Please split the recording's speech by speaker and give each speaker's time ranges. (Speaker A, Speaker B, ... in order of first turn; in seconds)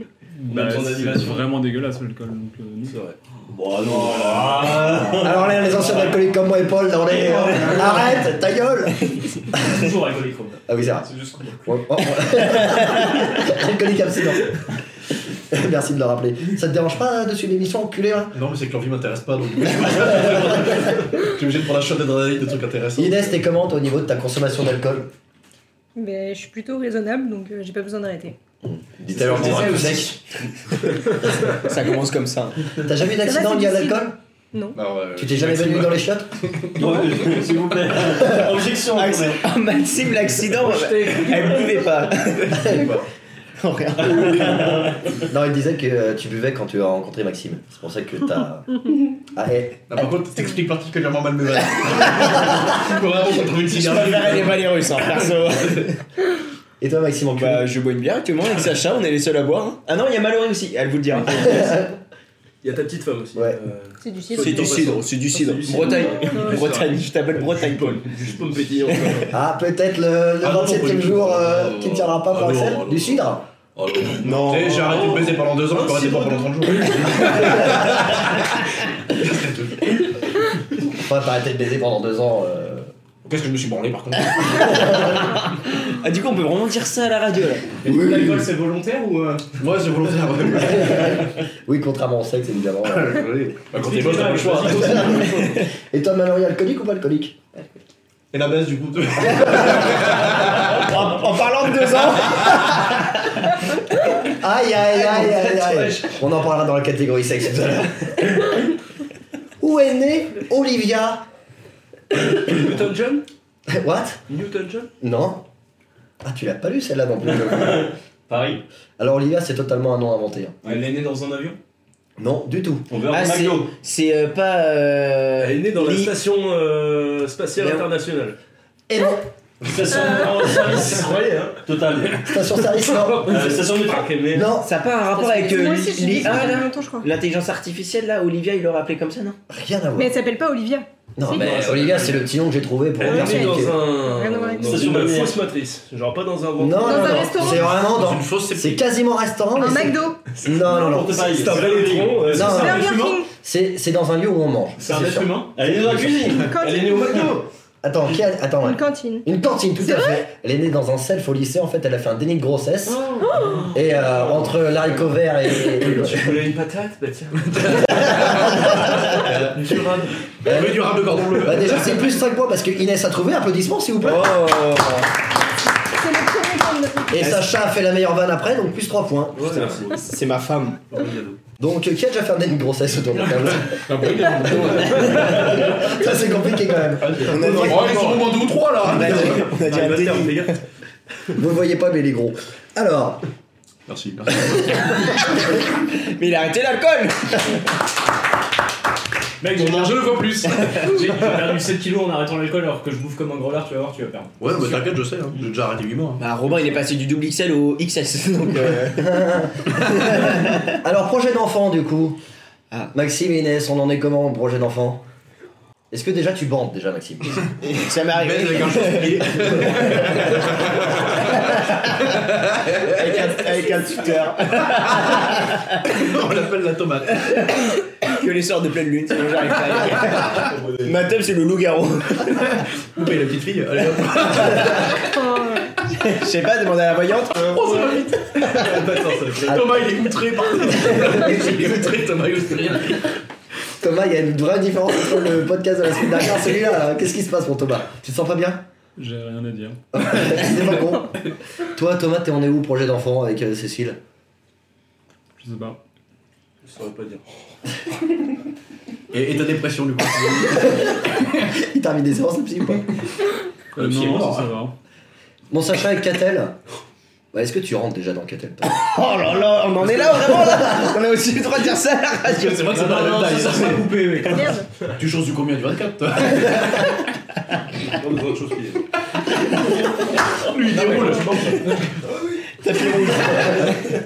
Speaker A: 0.4-3.0, 249.0-249.8, 255.4-255.8, 263.7-264.7
Speaker B: 0.5-1.5, 2.8-3.2, 62.6-69.3, 74.7-76.5, 112.1-113.2, 114.3-114.9, 125.4-128.4, 130.8-131.1, 133.4-134.1, 143.0-147.5, 151.1-153.0, 156.6-157.5, 165.6-167.8, 169.7-169.9, 179.3-179.9, 180.9-181.4, 189.0-190.6, 230.2-231.0, 238.5-239.6, 256.6-257.2, 277.9-278.8, 282.1-282.4
Speaker C: 3.5-5.5, 36.8-39.5, 44.3-44.9, 117.3-118.6, 122.9-123.7, 129.6-132.3, 133.2-134.5, 144.6-145.4, 150.4-152.4, 155.5-156.7, 179.4-179.8
Speaker D: 3.9-5.2, 7.3-8.0, 9.6-11.6, 87.8-89.5, 93.7-95.5, 120.6-121.6, 130.2-131.2, 133.1-133.8, 154.8-155.5, 199.4-204.3, 272.7-274.5
Speaker E: 5.2-9.7, 10.7-11.1, 11.6-14.6, 15.5-18.3, 23.0-25.1, 28.6-30.1, 32.8-34.2, 35.1-36.3, 38.1-38.5, 42.6-42.8, 45.3-49.9, 56.8-57.7, 61.2-62.0, 69.3-73.5, 80.9-82.9, 87.9-88.4, 90.6-93.2, 95.8-97.7, 99.2-100.0, 104.3-108.5, 109.6-111.2, 113.7-114.2, 115.0-115.4, 116.2-117.9, 119.0-120.6, 122.2-122.9, 128.9-129.3, 132.2-133.5, 134.3-134.7, 139.5-140.1, 141.2-143.8, 146.6-151.3, 152.3-155.3, 157.8-163.1, 163.7-166.4, 170.4-174.4, 177.1-179.4, 181.6-183.8, 184.7-187.8, 191.3-193.2, 208.9-212.2, 212.9-215.0, 215.9-217.5, 243.8-248.6, 249.9-251.1, 251.7-254.0, 260.6-262.9, 265.5-266.6, 267.3-268.7, 270.4-270.7
Speaker F: 18.3-23.4, 29.5-29.8, 34.7-36.9, 40.5-43.0, 49.9-55.9, 70.4-80.1, 83.2-85.1, 89.6-91.2, 92.9-95.3, 98.3-100.8, 147.4-148.8, 167.5-172.0, 183.5-185.7, 187.0-189.5, 193.9-194.9, 199.5-200.8, 204.4-206.2, 218.1-221.4, 222.2-223.4, 224.7-225.1, 225.8-227.2, 232.3-235.1, 237.4-243.1, 259.1-261.0, 263.8-264.5, 272.2-274.0, 275.0-276.9, 280.4-281.7
Speaker G: 25.9-28.3, 33.2-34.8, 64.0-65.0, 65.8-66.7, 135.1-137.1, 139.9-140.9, 143.0-144.9, 146.8-147.7, 149.5-150.3, 152.4-153.3, 156.3-157.4, 158.6-159.2, 175.9-177.3, 235.2-235.7, 274.3-274.7
Speaker H: 29.3-30.1, 31.5-32.7, 38.9-42.6, 43.6-44.7, 53.6-56.0, 57.3-61.8, 64.3-68.0, 74.2-75.1, 85.9-87.7, 100.7-102.9, 105.0-106.0, 123.1-126.1, 134.5-139.4, 174.0-175.1, 177.1-177.5, 179.5-180.8, 187.2-190.6, 196.0-197.6, 206.2-209.3, 210.1-210.5, 217.6-219.5, 222.9-225.6, 228.0-232.2, 235.9-237.7, 268.6-272.7, 282.6-283.7